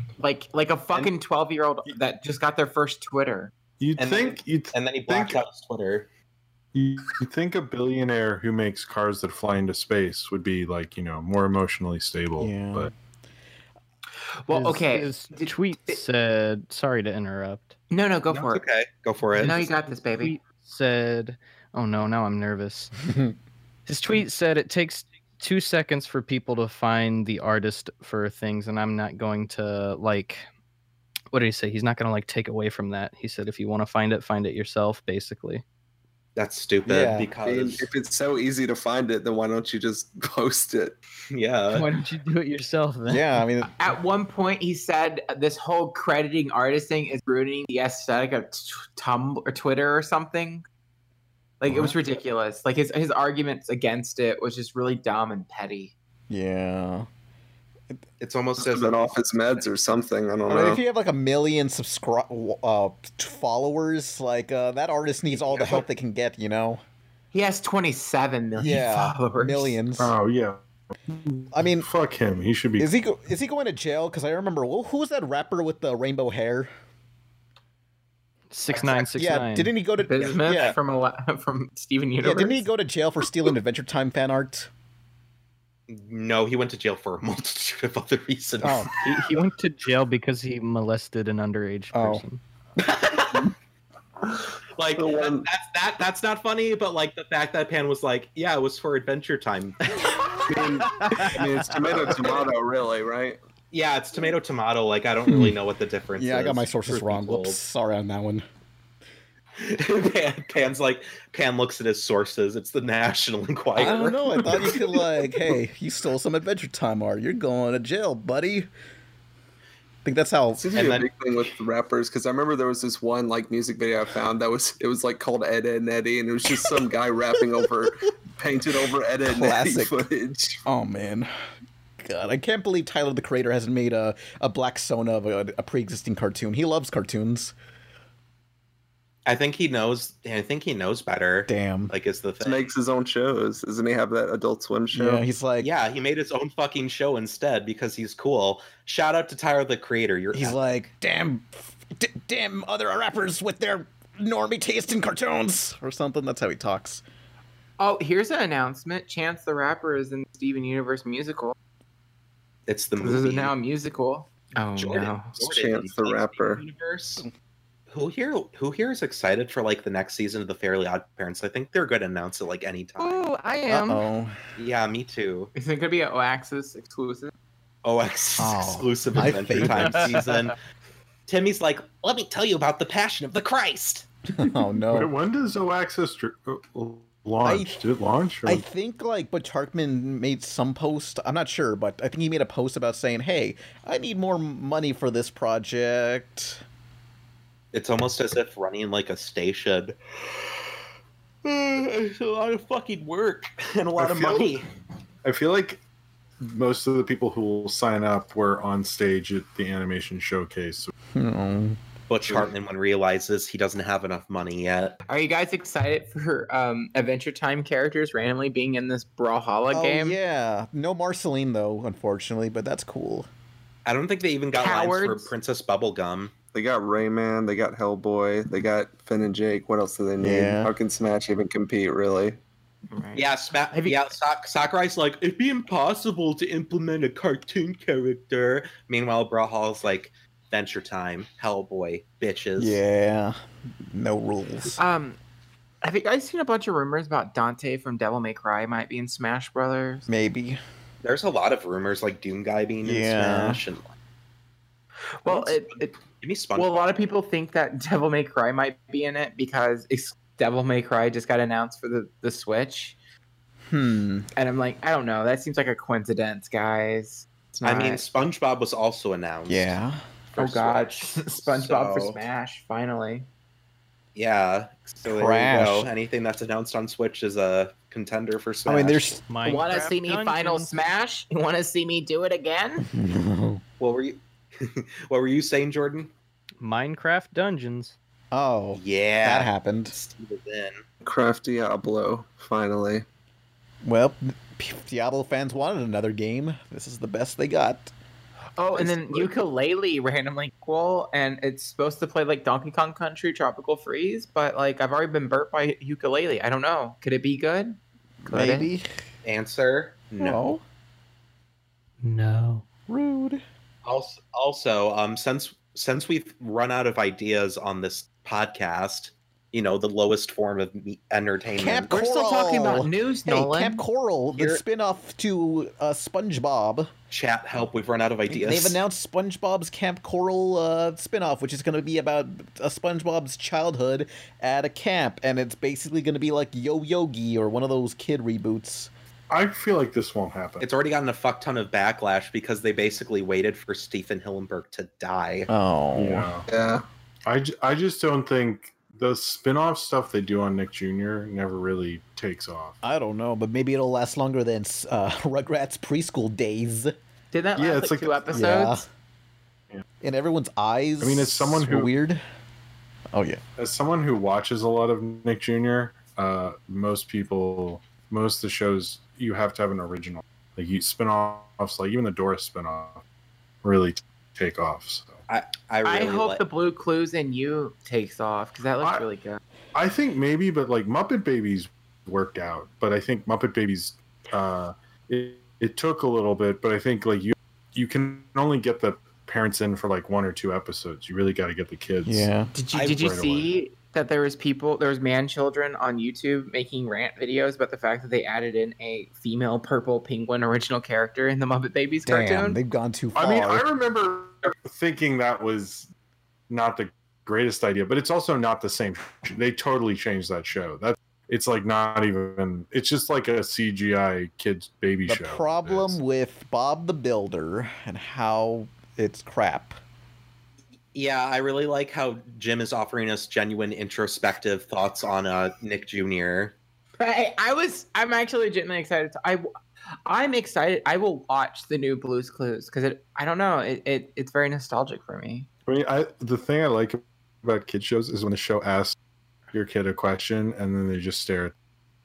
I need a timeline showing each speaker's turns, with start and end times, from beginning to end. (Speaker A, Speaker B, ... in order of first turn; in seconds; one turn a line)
Speaker A: 0.2-3.5
Speaker B: 3.8-5.4
Speaker C: 4.0-6.1
Speaker B: 6.7-12.9
Speaker D: 12.4-12.9
Speaker A: 14.4-16.0
Speaker E: 14.5-17.8
Speaker A: 17.9-18.6
Speaker C: 18.3-19.7
Speaker A: 19.4-20.3
Speaker E: 19.4-22.9
Speaker D: 23.1-23.4
Speaker E: 23.9-30.4
Speaker E: 31.3-35.6
Speaker C: 36.4-37.9
Speaker D: 36.9-37.3
Speaker F: 37.4-41.0
Speaker C: 41.3-41.9
Speaker E: 41.7-43.4
Speaker D: 43.1-43.7
Speaker A: 43.8-50.7
Speaker A: 51.6-55.9
Speaker D: 56.3-57.1
Speaker C: 58.2-59.4
Speaker F: 58.6-60.8
Speaker D: 60.5-66.8
Speaker C: 65.5-65.8
Speaker A: 67.3-69.8
Speaker D: 68.6-70.1
Speaker B: 70.0-72.9
Speaker D: 71.5-71.9
Speaker D: 72.8-76.7
Speaker E: 78.5-79.7
Speaker A: 78.7-79.0
Speaker D: 79.0-80.8
Speaker A: 80.0-82.6
Speaker D: 82.2-84.7
Speaker C: 85.9-89.0
Speaker D: 88.6-88.9
Speaker E: 89.0-92.4
Speaker D: 91.9-92.2
Speaker C: 92.8-93.5
Speaker C: 94.8-100.2
Speaker F: 95.0-95.5
Speaker F: 100.5-103.4
Speaker D: 101.2-102.0
Speaker C: 103.7-107.6
Speaker D: 105.3-105.6
Speaker D: 106.2-108.5
Speaker C: 109.6-114.8
Speaker D: 113.8-118.7
Speaker D: 120.0-120.8
Speaker F: 120.6-130.6
Speaker C: 120.7-121.1
Speaker D: 129.2-130.1
Speaker D: 130.7-131.3
Speaker D: 132.0-137.6
Speaker C: 139.3-142.7
Speaker D: 141.5-141.9
Speaker F: 142.4-145.2
Speaker D: 144.9-145.7
Speaker C: 145.6-150.6
Speaker D: 150.3-157.0
Speaker A: 157.8-161.6
Speaker C: 162.7-163.5
Speaker A: 163.0-165.4
Speaker C: 164.8-167.3
Speaker F: 165.4-166.6
Speaker C: 167.9-173.3
Speaker A: 173.0-174.1
Speaker D: 173.7-174.4
Speaker C: 174.6-175.5
Speaker A: 175.6-177.3
Speaker C: 177.8-180.6
Speaker D: 178.4-180.3
Speaker C: 181.3-184.1
Speaker D: 184.3-185.1
Speaker B: 184.9-188.6
Speaker D: 187.4-187.8
Speaker D: 188.4-196.6
Speaker C: 197.7-200.4
Speaker C: 201.4-204.7
Speaker B: 204.0-204.5
Speaker B: 205.2-205.8
Speaker B: 206.4-210.9
Speaker D: 211.1-211.8
Speaker C: 212.1-215.0
Speaker A: 215.1-220.2
Speaker D: 219.7-223.3
Speaker C: 223.9-226.3
Speaker A: 224.6-225.3
Speaker F: 226.5-232.4
Speaker D: 230.2-230.7
Speaker A: 232.9-234.1
Speaker C: 233.2-242.8
Speaker D: 242.6-244.8
Speaker A: 244.8-245.2
Speaker A: 245.8-250.1
Speaker D: 250.1-250.6
Speaker C: 251.0-253.9
Speaker D: 252.8-253.6
Speaker A: 255.2-255.9
Speaker C: 255.3-256.8
Speaker A: 256.6-263.0
Speaker D: 263.7-264.3
Speaker A: 264.4-268.0
Speaker C: 267.6-269.8
Speaker D: 269.5-270.0
Speaker C: 270.4-272.2
Speaker A: 270.4-273.3
Speaker C: 274.1-279.1
Speaker D: 275.1-275.9
Speaker D: 278.7-279.2
Speaker E: 279.3-280.7
Speaker A: 279.4-282.9
Speaker D: 282.8-283.6
Speaker C: 283.8-286.1
Speaker E: 286.6-287.9
Speaker D: 288.3-289.9
Speaker C: 288.8-290.8
Speaker F: 291.0-293.1
Speaker D: 293.8-297.9
Speaker A: 298.6-308.7
Speaker D: 308.2-309.0
Speaker C: 309.2-310.4
Speaker D: 310.2-310.6
Speaker E: 312.0-312.6
Speaker D: 312.9-313.4
Speaker C: 313.9-322.0
Speaker D: 321.6-326.9
Speaker A: 321.9-323.8
Speaker C: 324.3-324.6
Speaker C: 327.1-328.8
Speaker D: 328.3-338.9
Speaker B: 339.3-340.7
Speaker C: 340.6-345.5
Speaker D: 345.5-346.3
Speaker B: 345.9-346.5
Speaker F: 346.5-346.8
Speaker B: 347.3-352.8
Speaker D: 352.8-356.9
Speaker A: 357.3-358.9
Speaker B: 357.6-358.5
Speaker D: 358.3-358.9
Speaker D: 360.0-362.2
Speaker B: 361.0-361.9
Speaker D: 363.1-363.4
Speaker B: 363.6-373.0
Speaker B: 373.6-375.2
Speaker C: 375.3-376.4
Speaker A: 375.8-379.4
Speaker B: 379.8-393.5
Speaker D: 392.1-392.5
Speaker A: 392.5-402.6
Speaker C: 392.7-393.2
Speaker D: 402.1-403.6
Speaker B: 403.1-405.9
Speaker B: 406.5-416.0
Speaker D: 415.1-419.8
Speaker C: 420.9-426.6
Speaker A: 427.0-429.5
Speaker A: 430.1-435.5
Speaker B: 435.7-439.0
Speaker B: 439.5-441.5